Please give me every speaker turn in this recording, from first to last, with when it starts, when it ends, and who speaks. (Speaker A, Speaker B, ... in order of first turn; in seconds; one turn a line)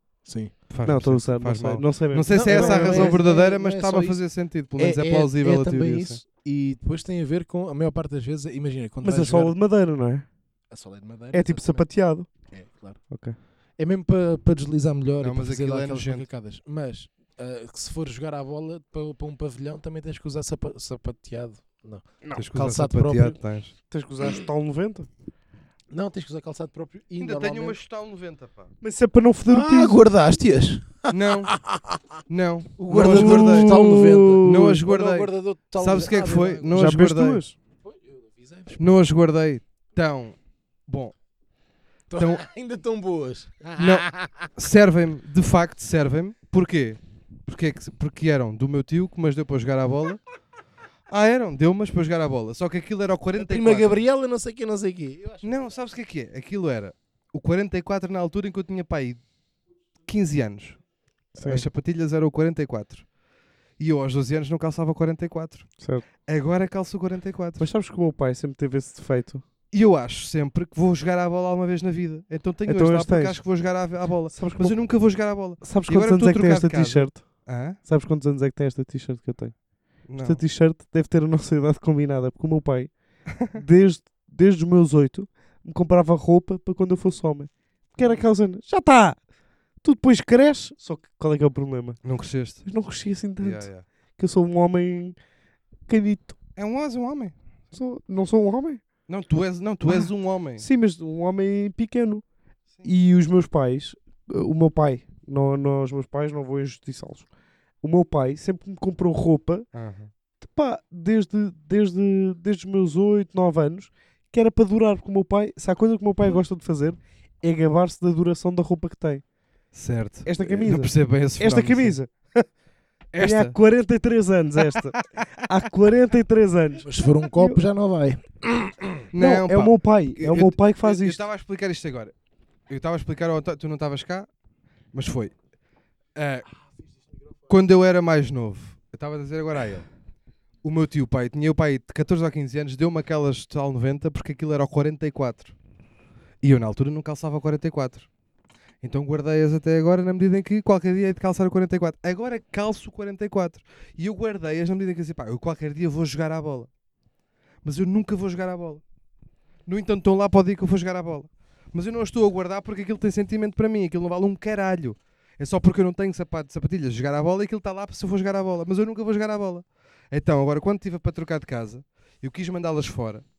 Speaker A: 0.2-0.6
Speaker B: 0.7-6.2
Speaker C: 0.8-3.2
Speaker A: 2.3-9.6
Speaker C: 9.0-10.3
Speaker A: 10.7-11.9
Speaker C: 11.3-12.3
Speaker A: 12.5-13.0
Speaker C: 13.1-13.4
Speaker A: 13.8-23.4
Speaker B: 15.2-16.3
Speaker B: 22.3-23.7
Speaker C: 23.9-25.1
Speaker A: 25.9-27.8
Speaker B: 27.2-28.7
Speaker C: 28.8-30.0
Speaker A: 29.5-32.0
Speaker B: 31.1-31.6
Speaker B: 32.3-33.8
Speaker A: 32.8-36.8
Speaker C: 32.9-34.8
Speaker B: 34.4-37.4
Speaker C: 36.7-37.5
Speaker A: 37.8-38.9
Speaker B: 38.8-40.4
Speaker B: 40.9-41.1
Speaker A: 42.1-44.5
Speaker B: 42.2-42.4
Speaker B: 43.8-50.2
Speaker B: 51.1-54.0
Speaker A: 53.4-55.7
Speaker B: 55.4-59.2
Speaker B: 60.1-60.8
Speaker C: 61.3-61.7
Speaker B: 61.4-63.1
Speaker B: 63.8-65.7
Speaker C: 65.8-66.0
Speaker B: 66.3-67.7
Speaker C: 67.6-69.4
Speaker B: 69.7-77.8
Speaker C: 72.7-73.4
Speaker C: 74.3-74.8
Speaker C: 75.6-79.6
Speaker B: 80.1-80.4
Speaker C: 80.1-89.2
Speaker C: 89.8-92.0
Speaker B: 92.0-92.7
Speaker C: 92.7-95.2
Speaker B: 93.4-93.8
Speaker C: 95.9-96.4
Speaker B: 96.6-97.3
Speaker C: 97.7-98.8
Speaker B: 99.1-100.7
Speaker C: 99.9-102.2
Speaker C: 102.8-107.3
Speaker C: 107.8-109.7
Speaker B: 109.7-110.1
Speaker C: 110.4-119.2
Speaker B: 119.7-122.0
Speaker C: 120.2-122.5
Speaker B: 123.1-123.6
Speaker C: 123.2-127.6
Speaker A: 126.8-129.0
Speaker B: 129.1-132.1
Speaker C: 129.2-131.2
Speaker B: 132.7-134.3
Speaker B: 134.9-135.3
Speaker B: 136.2-136.5
Speaker B: 137.5-139.9
Speaker B: 140.6-145.6
Speaker B: 146.4-148.1
Speaker B: 148.8-156.7
Speaker B: 157.6-158.8
Speaker B: 159.7-173.2